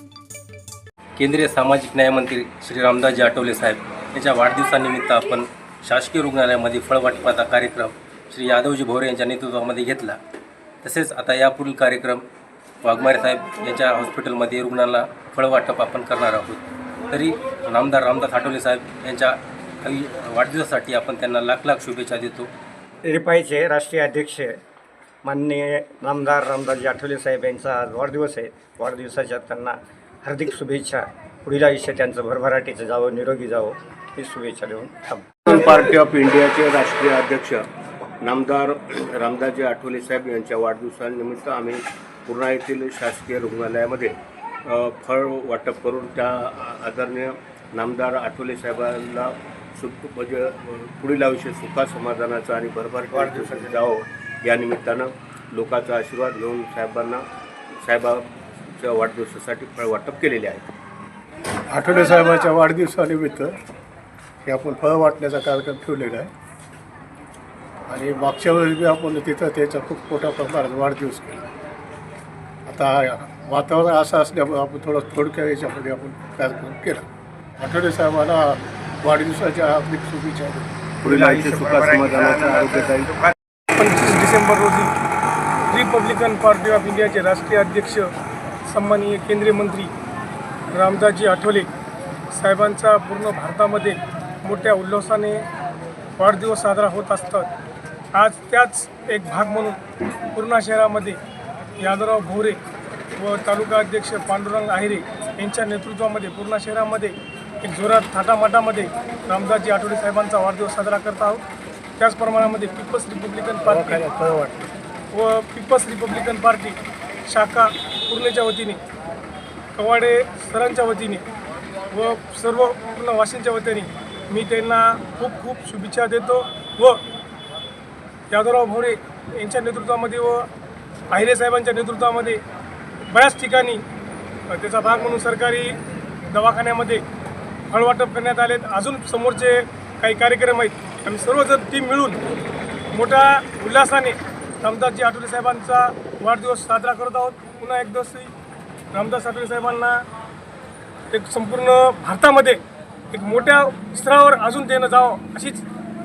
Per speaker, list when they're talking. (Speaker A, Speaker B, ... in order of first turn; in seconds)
Speaker A: 1.2-10.2, 10.8-12.2, 12.8-22.5
Speaker B: 23.0-24.6, 25.2-35.5, 53.1-53.9, 81.0-83.3
Speaker C: 35.5-37.6, 38.2-44.1, 44.6-57.2, 57.8-60.7, 81.0-83.1
Speaker D: 61.7-63.6, 64.5-66.3, 67.9-71.4, 72.7-77.0, 77.6-80.7, 113.7-114.7
Speaker E: 83.7-84.9, 85.7-88.1, 88.7-89.9, 90.7-91.7, 92.3-95.5, 96.2-97.5, 98.1-99.8, 100.3-101.2, 101.8-102.6, 103.2-111.4, 112.0-114.0, 115.1-118.8, 119.8-121.2, 121.9-127.0, 128.3-130.5, 131.1-132.4, 133.1-133.8, 134.5-135.8, 136.3-137.0, 137.7-142.2, 142.9-148.3, 148.9-150.0, 151.1-152.6, 153.1-155.6